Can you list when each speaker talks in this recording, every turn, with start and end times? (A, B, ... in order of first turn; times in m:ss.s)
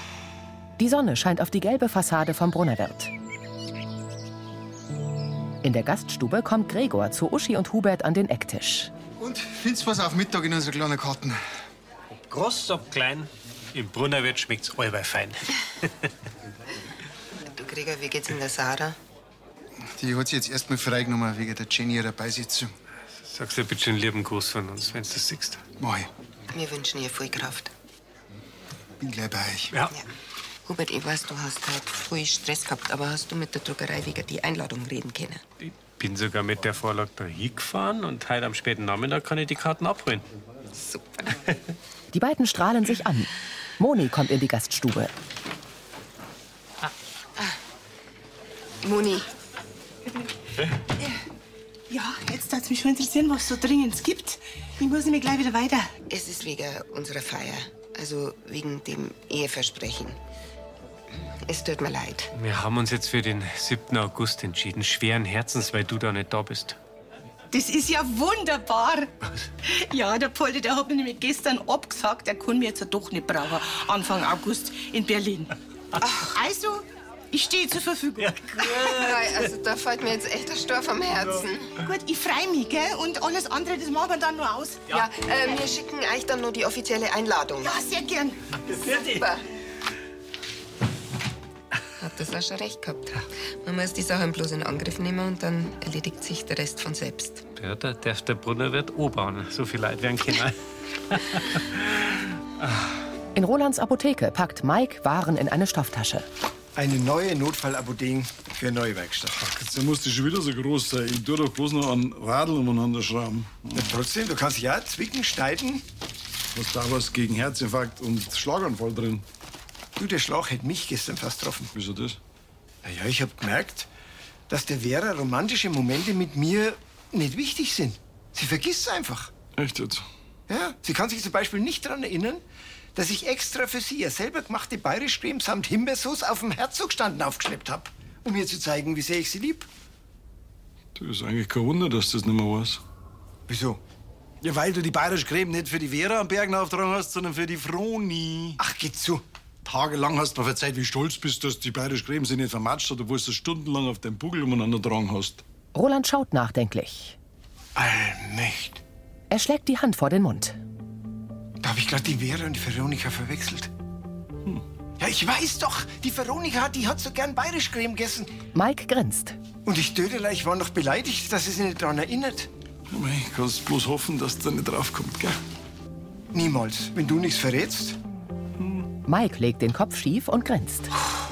0:00.8-0:03.1 A
0:05.6-0:08.9 A
0:09.2-0:11.4 B
0:12.3-0:15.5 C
0:17.5-0:19.0 D
0:20.0-0:22.7 B
0:23.2-0:25.6 C
0:25.8-0:26.1 B
0:26.5-0:27.7 D
0:29.0-0:29.8 B
0:30.7-0:35.4 D
0:35.6-0:40.2 C
0:40.7-0:41.4 D
0:42.1-0:45.1 A
0:48.8-0:49.3 D
0:51.9-0:55.9 E
0:56.1-1:00.2 D
1:01.5-1:02.3 D
1:02.4-1:06.8 C
1:07.5-1:15.6 E
1:16.3-1:18.9 E
1:18.6-1:19.3 C
1:18.9-1:21.7 D
1:21.8-1:25.0 E
1:24.9-1:27.7 D
1:27.6-1:28.4 E
1:28.7-1:29.2 C
1:29.0-1:29.4 D
1:32.0-1:37.4 D
1:37.6-1:42.1 C
1:43.4-1:46.3 A
1:46.8-1:49.4 F
1:49.4-1:53.8 G
1:53.8-1:55.8 F
1:56.5-1:59.2 G
2:00.0-2:01.7 F
2:01.8-2:02.2 G
2:02.8-2:03.9 F
2:04.5-2:09.3 F
2:09.6-2:10.1 G
2:10.5-2:12.4 F
2:13.0-2:19.7 F
2:21.0-2:22.8 G
2:23.5-2:23.8 F
2:24.4-2:28.6 G
2:28.6-2:29.2 F
2:29.6-2:35.4 G
2:35.7-2:37.2 A
2:37.8-2:38.8 F
2:39.3-2:40.6 A
2:41.6-2:43.7 F
2:45.0-2:48.3 F
2:48.5-2:49.4 A
2:49.6-2:52.5 F
2:52.9-2:55.4 G
2:56.3-2:58.0 F
2:59.1-3:00.9 A